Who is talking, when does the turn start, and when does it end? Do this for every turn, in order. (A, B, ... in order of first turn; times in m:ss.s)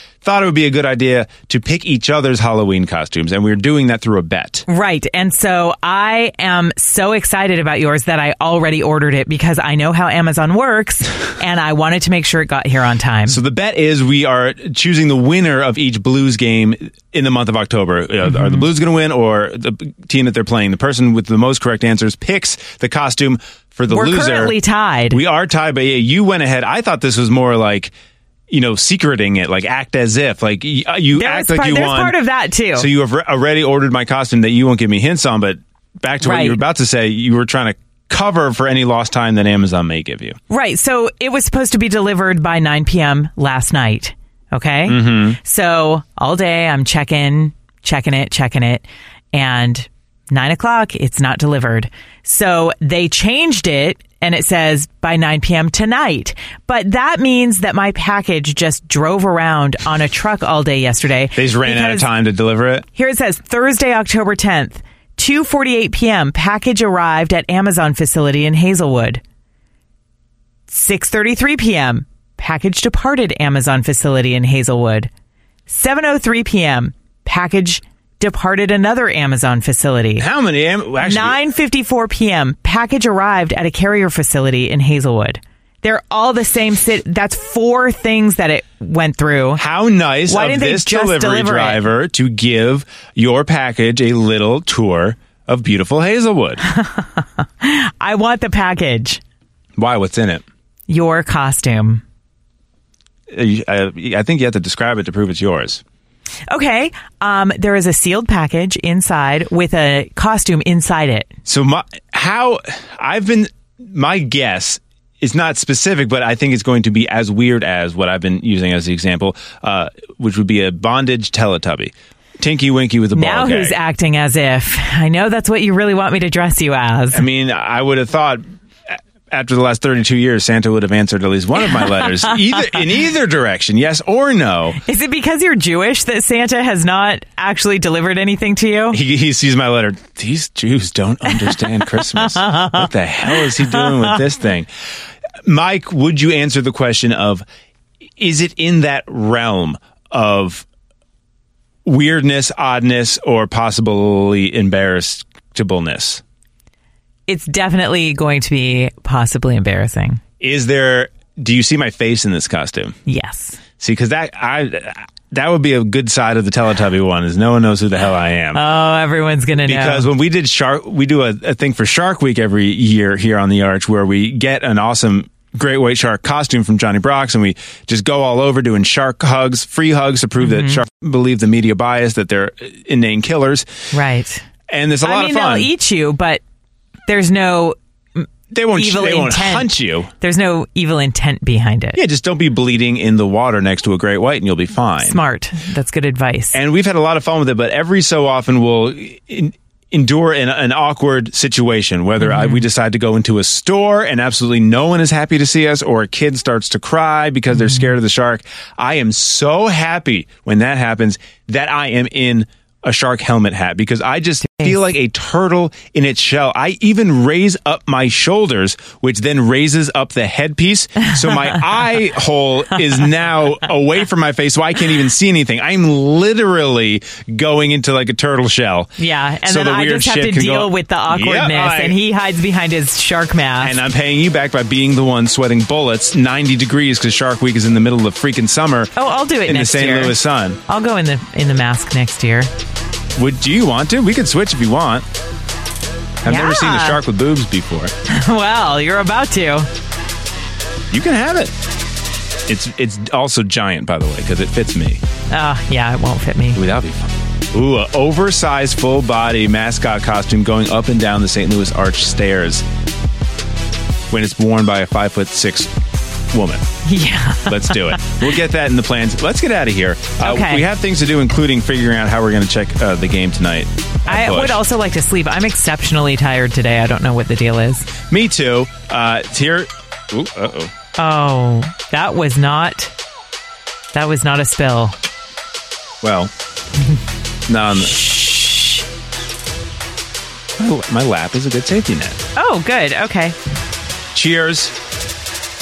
0:00.2-0:04.6 A
0:04.7-0:13.4 B
0:13.3-0:24.6 A
0:23.9-0:25.2 B
0:25.1-0:27.9 A
0:28.5-0:32.1 A
0:31.1-0:32.9 B
0:32.8-0:40.4 A
0:36.2-0:36.6 B
0:40.5-1:02.1 B
0:44.9-0:45.4 A
1:01.4-1:02.8 A
1:03.0-1:09.2 B
1:10.7-1:15.1 B
1:15.7-1:20.2 B
1:20.2-1:21.4 A
1:21.0-1:29.6 B
1:29.6-1:36.6 A
1:30.3-1:31.8 B
1:36.7-1:39.2 B
1:39.8-1:40.4 A
1:40.9-1:42.0 B
1:43.3-1:45.8 A
1:46.5-1:51.3 B
1:51.5-2:03.8 A
2:03.1-2:07.2 B
2:07.1-2:14.8 A
2:14.8-2:19.0 B
2:18.9-2:24.7 A
2:22.4-2:22.8 B
2:25.4-2:27.4 A
2:28.2-2:30.6 A
2:31.8-2:36.2 A
2:37.3-2:40.2 B
2:40.4-2:43.0 A
2:43.1-2:43.6 B
2:43.8-2:48.6 A
2:48.5-2:50.1 B
2:49.6-3:03.7 A
3:00.4-3:00.8 B
3:03.9-3:04.4 B
3:04.7-3:05.7 A
3:05.0-3:06.4 B
3:07.1-3:12.0 B
3:08.5-3:10.1 A
3:11.9-3:15.2 A
3:15.0-3:16.6 B
3:16.5-3:48.9 A
3:22.2-3:22.6 B
3:49.0-3:53.8 B
3:49.4-3:52.0 A
3:53.6-3:58.9 A
3:59.0-4:00.2 B
3:59.4-4:00.6 A
4:00.7-4:02.5 B
4:03.2-4:05.0 A
4:06.2-4:07.9 A
4:06.2-4:07.0 B
4:08.1-4:09.7 B
4:10.9-4:11.5 A
4:12.5-4:15.0 A
4:15.3-4:16.6 B
4:16.6-4:22.6 A
4:24.1-4:25.7 A
4:26.3-4:26.7 A
4:26.8-4:28.1 B
4:27.4-4:34.6 A
4:30.2-4:30.6 B
4:34.1-4:37.9 B
4:38.1-4:40.7 A
4:41.0-4:42.9 B
4:43.9-4:44.9 B
4:46.0-4:46.3 A
4:47.5-4:48.4 A
4:50.6-4:52.2 A
4:52.4-4:53.4 B
4:54.1-4:54.7 A